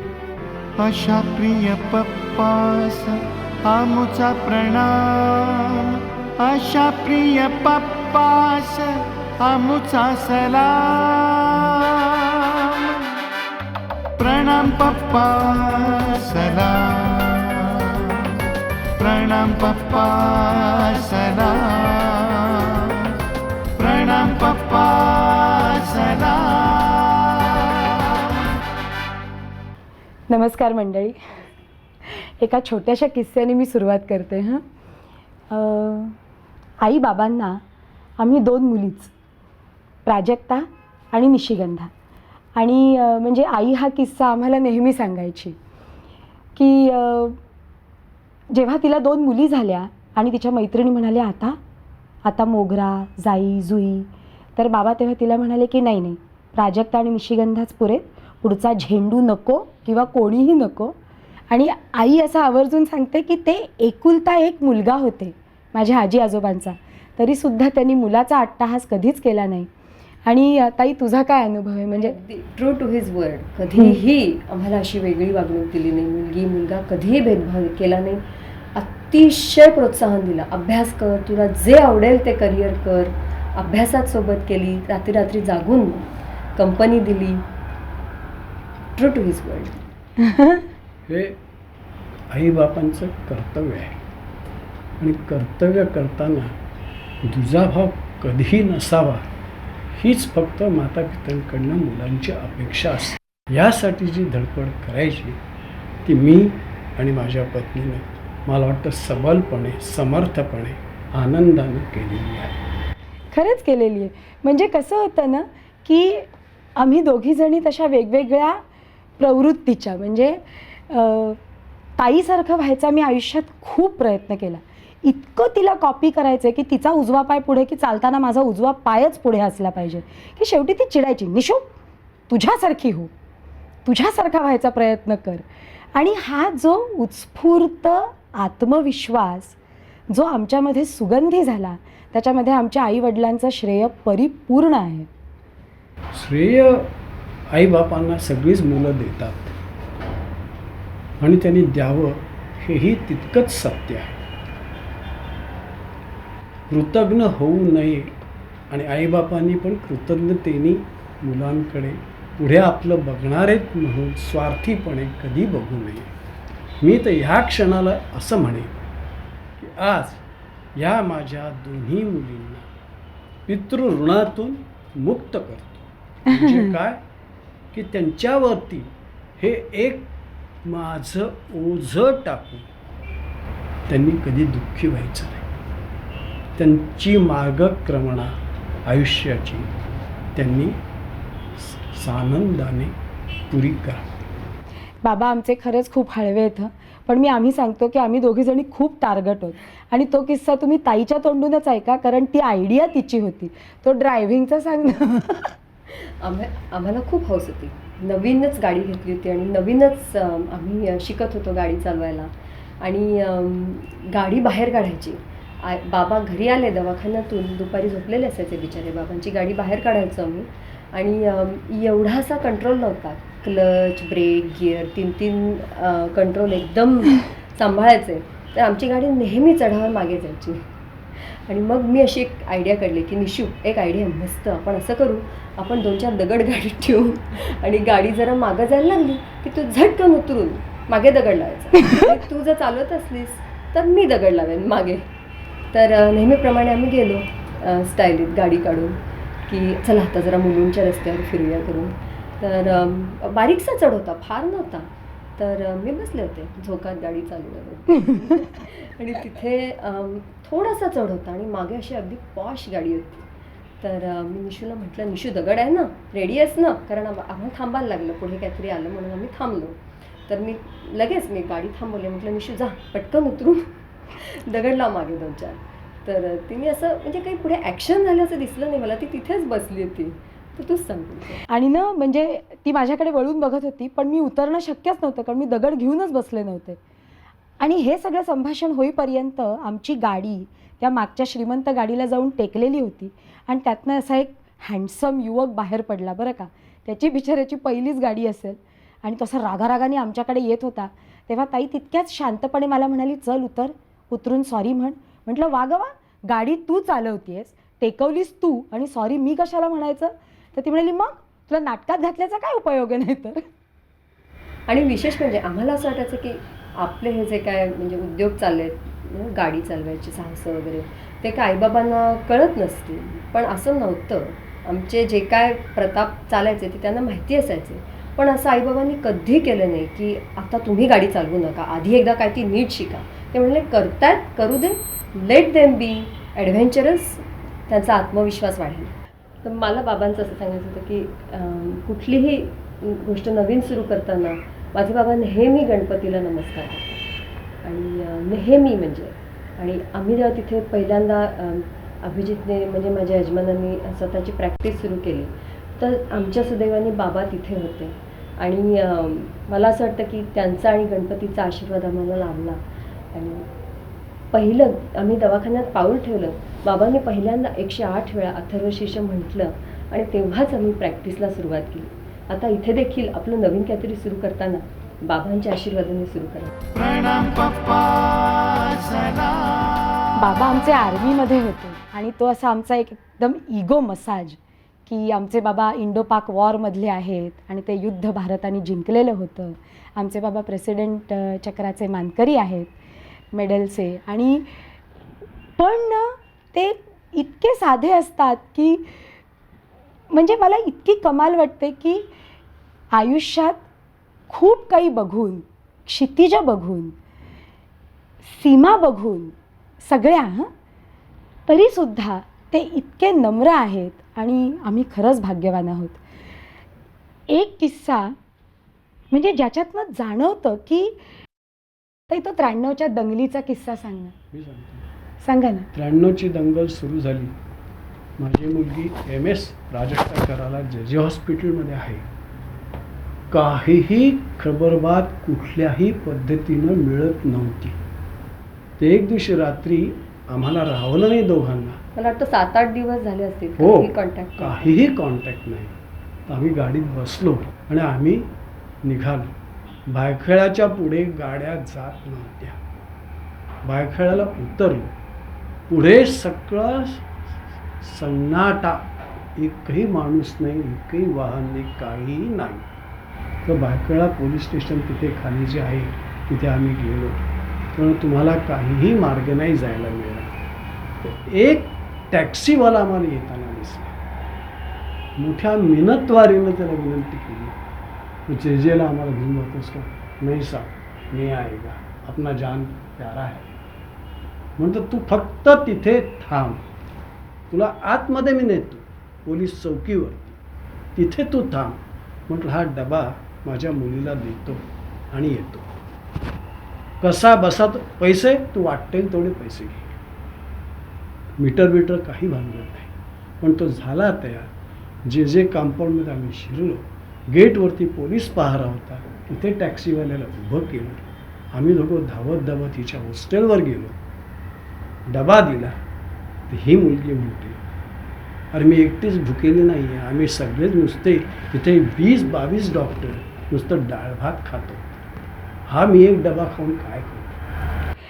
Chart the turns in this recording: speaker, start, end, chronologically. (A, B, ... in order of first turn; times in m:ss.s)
0:00.8-0:13.2 A
0:14.2-0:18.4 A
0:19.0-0:23.1 A
0:23.8-0:28.3 A
0:30.3-0:31.2 B
0:32.1-0:34.6 B
0:35.5-0:36.2 B
0:36.8-0:37.6 B
0:38.2-0:39.1 B
0:40.0-0:41.9 B
0:42.6-0:45.6 B
0:46.6-0:47.4 B
0:48.5-0:51.6 B
0:52.2-1:00.9 B
1:01.5-1:09.7 B
1:10.2-1:12.2 B
1:12.0-1:18.2 C
1:18.7-1:27.4 C
1:28.9-1:29.8 C
1:30.3-1:30.6 B
1:31.1-1:31.4 D
1:32.3-1:34.0 D
1:35.0-1:36.6 D
1:37.2-1:39.3 D
1:40.0-1:45.4 D
1:46.0-1:52.6 D
1:53.3-1:56.2 B
1:56.8-1:58.6 B
1:59.2-2:01.4 B
2:02.0-2:11.7 B
2:12.3-2:13.1 B
2:13.8-2:19.6 B
2:20.1-2:25.1 B
2:26.1-2:26.9 D
2:27.5-2:29.5 D
2:31.2-2:34.2 D
2:36.7-2:38.1 D
2:38.7-2:46.1 D
2:46.8-2:48.8 D
2:49.6-2:50.2 D
2:50.8-2:52.7 D
2:53.5-2:57.0 D
2:56.3-2:56.7 B
2:57.7-3:00.1 D
3:00.6-3:02.6 D
3:03.9-3:05.4 D
3:06.6-3:08.3 D
3:08.8-3:09.7 D
3:10.3-3:10.8 D
3:11.6-3:12.9 D
3:13.5-3:14.1 D
3:15.0-3:25.5 B
3:25.9-4:05.0 C
4:05.7-4:23.2 C
4:23.8-4:41.4 C
4:41.5-4:46.8 B
4:47.6-5:13.4 B
5:14.7-5:38.9 C
5:39.4-5:47.0 C
5:47.6-6:02.6 C
6:03.1-6:03.5 C
6:04.3-6:16.5 C
6:16.7-6:20.1 A
6:20.2-6:32.7 B
6:33.3-6:34.5 B
6:35.6-6:39.0 B
6:40.1-6:42.0 B
6:42.9-6:43.6 B
6:44.3-6:47.0 B
6:48.2-6:50.5 B
6:51.5-6:56.0 B
6:57.3-6:58.1 B
6:59.1-7:01.0 B
7:02.1-7:04.1 B
7:04.3-7:04.9 D
7:05.2-7:05.7 B
7:05.7-7:07.3 D
7:08.2-7:12.0 D
7:13.3-7:17.8 D
7:18.8-7:21.8 D
7:22.0-7:24.7 C
7:23.6-7:25.7 D
7:26.3-7:28.3 D
7:28.8-7:29.3 D
7:29.9-7:32.6 D
7:33.6-7:34.9 D
7:35.7-7:37.0 D
7:37.8-7:42.7 D
7:43.4-7:47.2 D
7:47.7-7:50.3 D
7:51.0-7:54.0 D
7:55.2-7:57.6 D
7:58.3-8:03.5 D
8:04.6-8:06.6 D
8:07.5-8:10.4 D
8:11.0-8:15.6 D
8:17.0-8:19.9 D
8:21.4-8:24.5 D
8:25.0-8:34.0 D
8:35.1-8:35.8 D
8:36.5-8:37.6 D
8:38.5-8:45.0 D
8:45.7-8:47.3 D